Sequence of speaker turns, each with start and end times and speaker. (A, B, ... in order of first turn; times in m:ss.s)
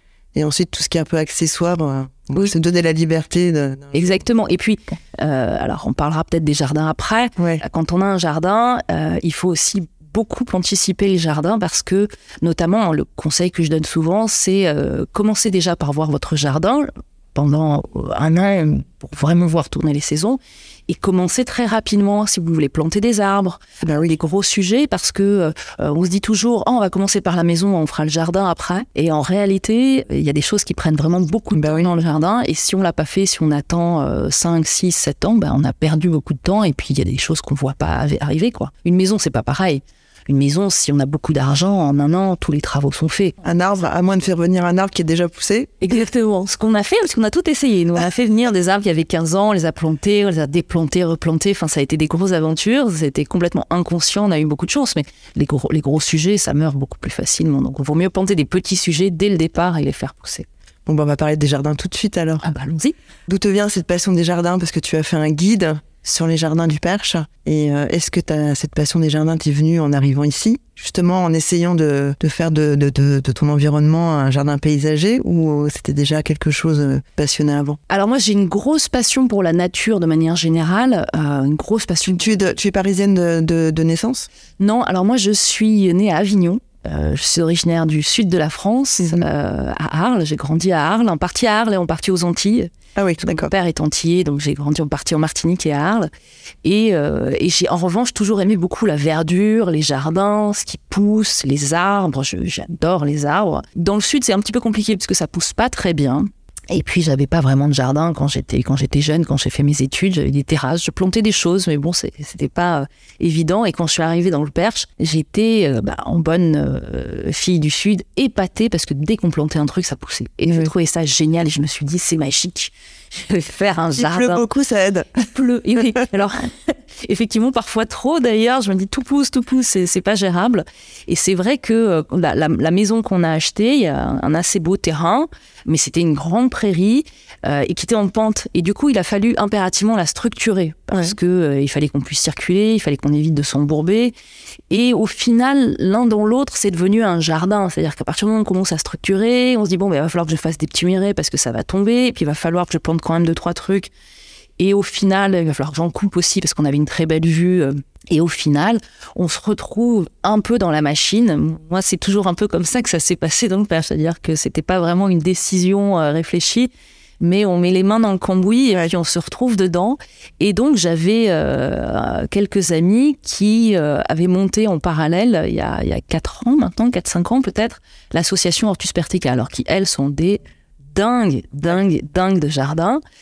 0:00.3-0:04.2 A
0:03.9-0:43.4 B
0:07.4-0:07.6 A
0:23.8-0:24.2 A
0:31.6-0:31.9 A
0:43.4-0:45.8 A
0:45.8-1:00.5 B
1:00.9-1:02.4 A
1:02.4-1:03.0 B
1:03.3-1:17.8 A
1:17.9-1:22.5 B
1:22.0-1:24.3 A
1:24.6-1:32.7 B
1:33.0-1:33.5 A
1:33.2-1:36.1 B
1:36.6-2:04.4 B
2:04.0-2:05.2 A
2:05.2-2:24.2 B
2:24.7-2:33.9 B
2:34.6-3:00.4 B
3:00.9-3:03.0 B